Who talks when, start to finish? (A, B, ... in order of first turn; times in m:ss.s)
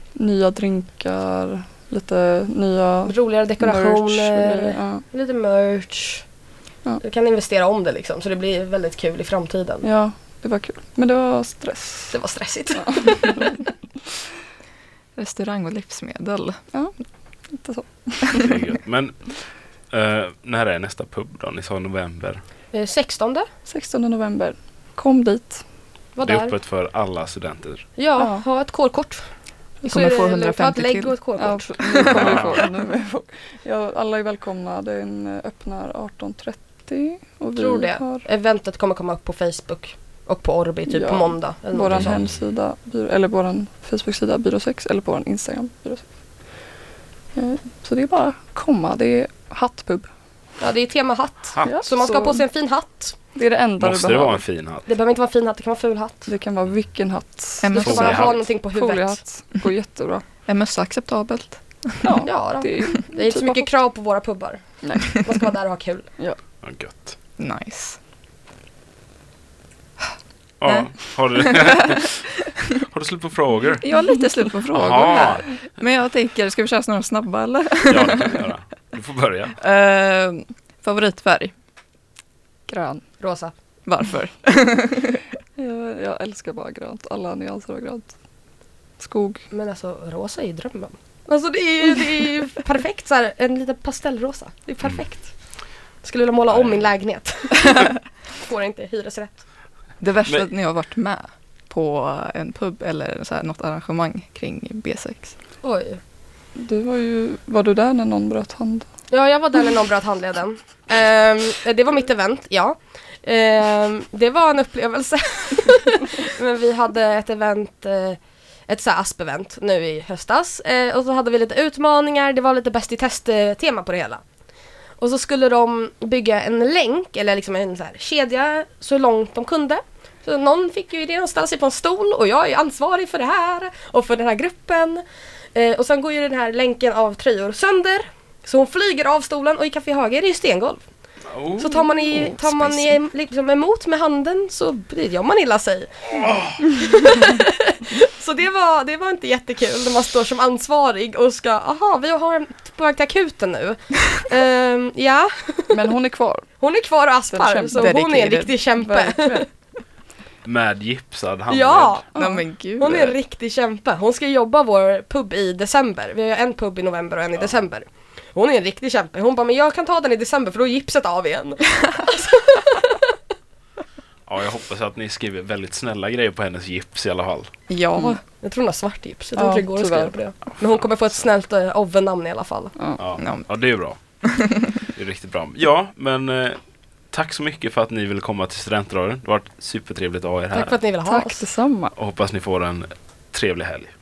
0:00.2-0:05.0 A
0:03.0-0:06.2 B
0:07.0-0:09.8 B
0:09.8-0:12.2 A
0:12.1-0:13.4 B
0:12.8-0:13.6 A
0:15.2-0:16.6 C
0:17.5-0:18.5 A
0:18.4-0:19.2 D
0:19.9-0:22.4 D
0:22.7-0:23.4 B
0:23.6-0:25.6 A
0:26.1-0:26.5 B
0:26.2-0:27.8 D
0:28.0-0:29.3 B
0:28.2-0:28.4 A
0:29.8-0:31.2 C
0:29.8-0:31.7 B
0:31.4-0:38.2 A
0:32.1-0:32.6 D
0:37.6-0:42.2 B
0:40.8-0:46.0 A
0:41.9-0:42.4 D
0:47.3-0:50.1 A
0:50.6-0:53.2 B
0:51.5-0:51.8 D
0:51.6-0:52.4 A
0:53.3-0:54.4 A
0:53.8-0:54.8 D
0:54.8-0:56.3 B
0:56.3-1:00.2 A
0:57.6-0:58.2 C
0:57.7-0:59.2 B
0:57.8-0:58.4 D
1:00.5-1:02.2 C
1:02.0-1:03.7 A
1:02.2-1:06.1 B
1:04.8-1:05.2 A
1:05.0-1:05.3 C
1:06.6-1:07.1 D
1:07.4-1:08.0 C
1:10.6-1:12.1 D
1:10.6-1:12.4 C
1:12.9-1:13.8 D
1:13.8-1:18.4 C
1:14.7-1:15.5 D
1:17.9-1:19.6 D
1:19.6-1:21.5 C
1:22.7-1:23.0 A
1:23.2-1:23.5 B
1:23.8-1:25.2 C
1:25.6-1:28.1 A
1:29.0-1:29.5 A
1:29.5-1:35.3 B
1:36.0-1:39.4 B
1:36.5-1:36.9 D
1:40.0-1:45.3 C
1:45.6-1:46.0 B
1:46.6-1:48.9 A
1:49.1-2:04.2 B
2:05.0-2:15.0 B
2:15.5-2:20.8 B
2:21.3-2:22.9 D
2:21.6-2:35.8 B
2:26.2-2:26.6 D
2:35.7-2:36.5 A
2:36.6-2:39.5 B
2:37.3-2:37.9 A
2:37.7-2:38.6 C
2:38.8-2:39.4 A
2:40.4-2:42.0 D
2:41.5-2:42.2 B
2:42.1-2:42.4 A
2:42.2-2:43.2 C
2:42.8-2:53.0 B
2:54.2-2:57.5 D
2:57.7-2:58.2 C
2:58.1-3:02.7 B
2:59.4-3:00.1 A
3:02.8-3:03.0 A
3:03.0-3:04.0 D
3:03.2-3:03.6 C
3:04.2-3:04.8 C
3:04.8-3:06.6 D
3:07.1-3:10.7 D
3:10.5-3:11.4 B
3:11.0-3:11.9 A
3:12.0-3:13.9 D